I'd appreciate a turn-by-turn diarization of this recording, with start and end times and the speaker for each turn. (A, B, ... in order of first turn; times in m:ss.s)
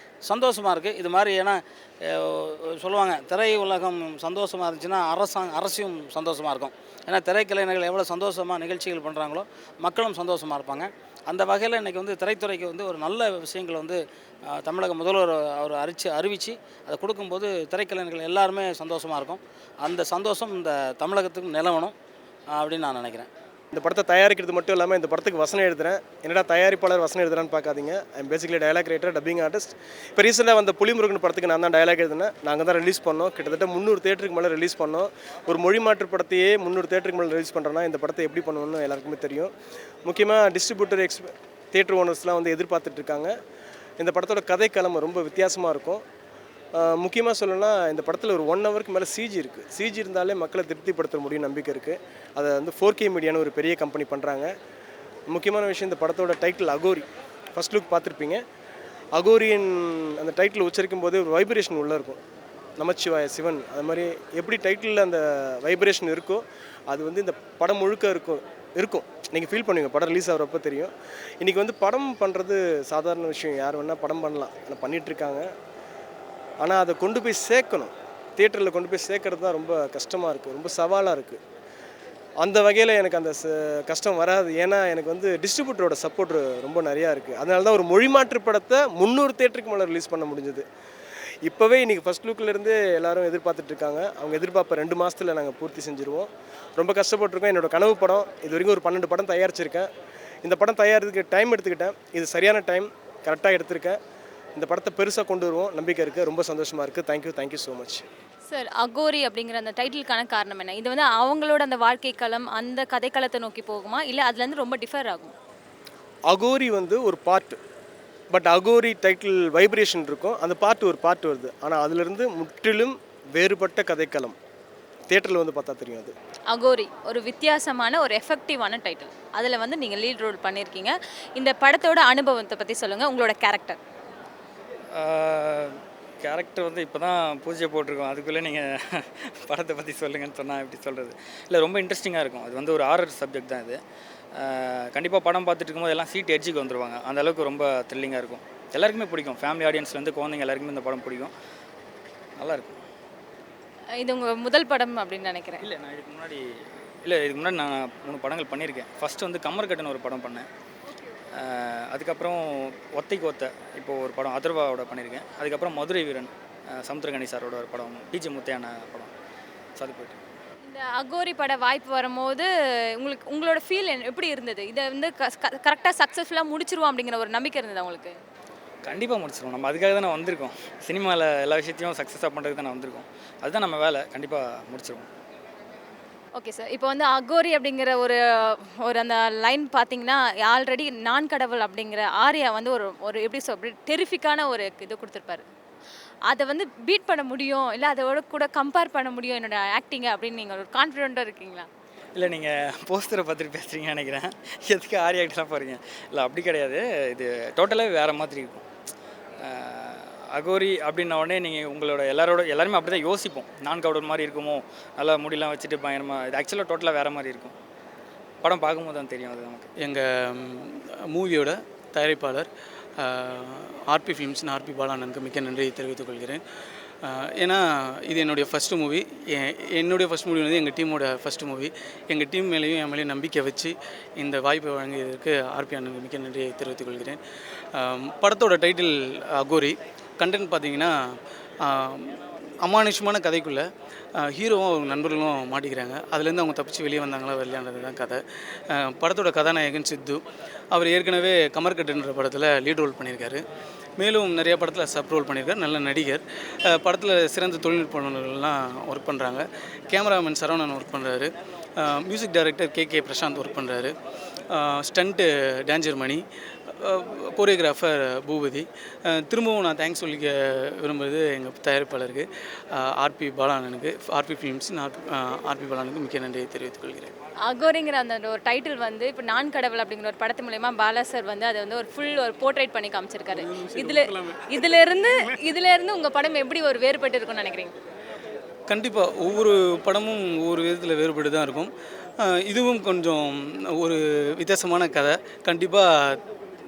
0:00.2-0:21.9 A
0:22.5-0:23.3 A
0:23.7-0:39.5 B
0:40.0-0:43.3 B
0:44.0-0:46.0 B
0:46.7-0:54.5 B
0:55.3-0:58.4 B
0:59.1-1:02.2 B
1:02.8-1:15.5 B
1:16.6-1:21.4 B
1:22.4-1:30.6 B
1:31.4-1:39.9 B
1:40.4-1:44.0 B
1:44.6-1:48.0 B
1:48.5-1:55.3 C
1:56.3-1:57.6 B
1:58.3-2:04.4 B
2:05.1-2:06.1 B
2:06.5-2:13.8 C
2:14.9-2:23.8 D
2:24.3-2:31.3 D
2:32.4-2:32.8 D
2:34.0-2:35.6 C
2:35.6-2:36.4 D
2:37.0-2:40.5 D
2:41.3-2:49.1 D
2:49.8-2:50.2 D
2:50.6-2:58.2 C
2:58.8-3:05.1 D
3:06.4-3:15.4 C
3:16.3-3:21.7 C
3:22.1-3:28.6 D
3:29.4-3:37.6 D
3:38.4-3:39.7 D
3:39.8-3:42.5 E
3:43.0-3:46.4 E
3:47.0-3:57.2 E
3:57.7-4:00.9 E
4:01.6-4:03.7 E
4:04.2-4:13.4 E
4:14.0-4:21.3 E
4:21.8-4:23.9 E
4:24.5-4:26.2 E
4:26.8-4:37.1 E
4:37.5-4:43.5 C
4:43.5-4:44.4 E
4:44.7-4:47.7 C
4:48.7-4:51.7 E
4:52.2-4:56.2 E